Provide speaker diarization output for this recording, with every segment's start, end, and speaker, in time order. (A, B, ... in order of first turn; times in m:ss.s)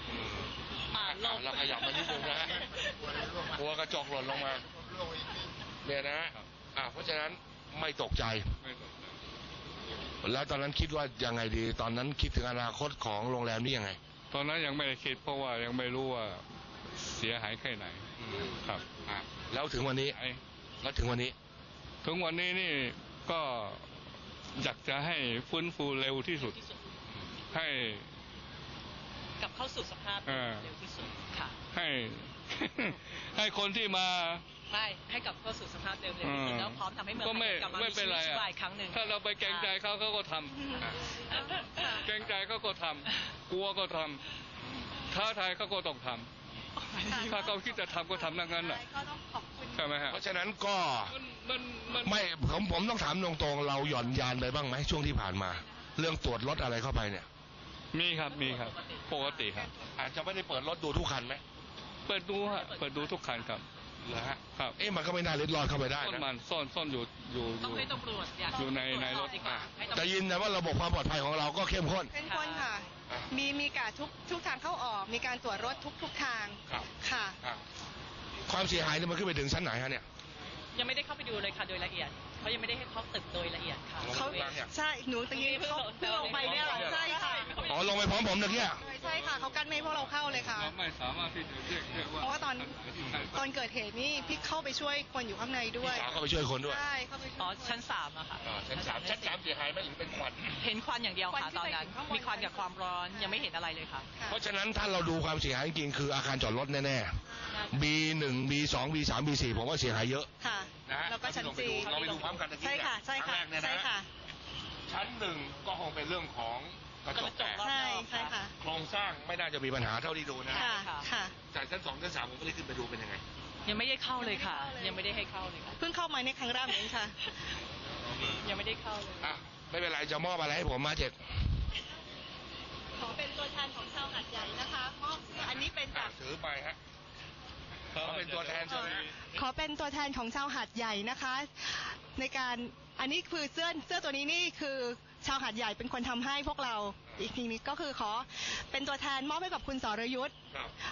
0:00.1-0:02.7 A
0:00.9-0:03.2 B
0:03.5-0:04.6 A
0:05.8-0:08.5 A
0:08.6-0:09.0 C
0:10.2-0:14.0 A
0:14.3-0:16.4 C
0:17.2-0:18.8 C
0:18.2-0:20.2 A
0:20.1-0:20.4 C
0:20.8-0:21.4 A
0:22.0-0:23.8 C
0:24.6-0:26.6 C
0:26.4-0:26.8 B
0:27.5-0:28.1 C
0:29.4-0:31.6 B
0:30.3-0:30.7 C
0:31.7-0:34.4 C
0:34.7-0:39.8 B
0:36.2-0:40.7 C
0:41.6-0:42.0 D
0:41.8-0:44.2 C
0:45.1-0:46.3 C
0:46.8-0:47.3 B
0:47.1-0:49.9 D
0:47.1-0:48.8 C
0:49.7-0:50.2 C
0:50.1-0:51.2 A
0:51.1-0:52.2 C
0:52.0-0:57.3 A
0:57.9-0:59.7 C
0:58.3-0:59.6 B
1:00.0-1:01.4 A
1:02.1-1:03.6 C
1:02.4-1:03.6 B
1:04.0-1:06.3 A
1:06.0-1:08.0 C
1:07.6-1:10.2 B
1:08.5-1:09.5 C
1:09.4-1:12.1 A
1:12.1-1:17.4 D
1:12.2-1:12.7 B
1:18.5-1:20.0 A
1:20.8-1:24.6 B
1:24.0-1:24.7 A
1:24.1-1:27.6 D
1:25.3-1:28.1 B
1:26.4-1:28.8 A
1:28.4-1:30.8 D
1:29.0-1:33.4 C
1:32.2-1:32.8 D
1:33.3-1:37.8 D
1:34.2-1:34.4 B
1:35.8-1:36.8 A
1:37.4-1:39.4 B
1:38.4-1:40.6 A
1:40.6-1:44.1 B
1:41.3-1:43.5 D
1:44.1-1:44.4 D
1:44.3-1:47.2 A
1:47.5-1:47.9 B
1:47.7-1:50.3 A
1:50.4-1:54.1 D
1:50.9-1:53.9 A
1:51.9-1:52.4 B
1:54.9-1:57.6 A
1:57.1-1:58.4 B
1:57.6-1:58.5 D
1:58.6-2:00.7 A
2:00.5-2:01.4 D
2:00.6-2:01.1 B
2:01.5-2:03.2 A
2:03.7-2:05.8 B
2:04.2-2:05.0 D
2:05.8-2:07.2 D
2:08.4-2:09.3 B
2:09.2-2:11.2 A
2:13.0-2:16.1 D
2:15.9-2:16.8 A
2:18.0-2:19.1 C
2:18.0-2:19.1 A
2:18.7-2:30.4 D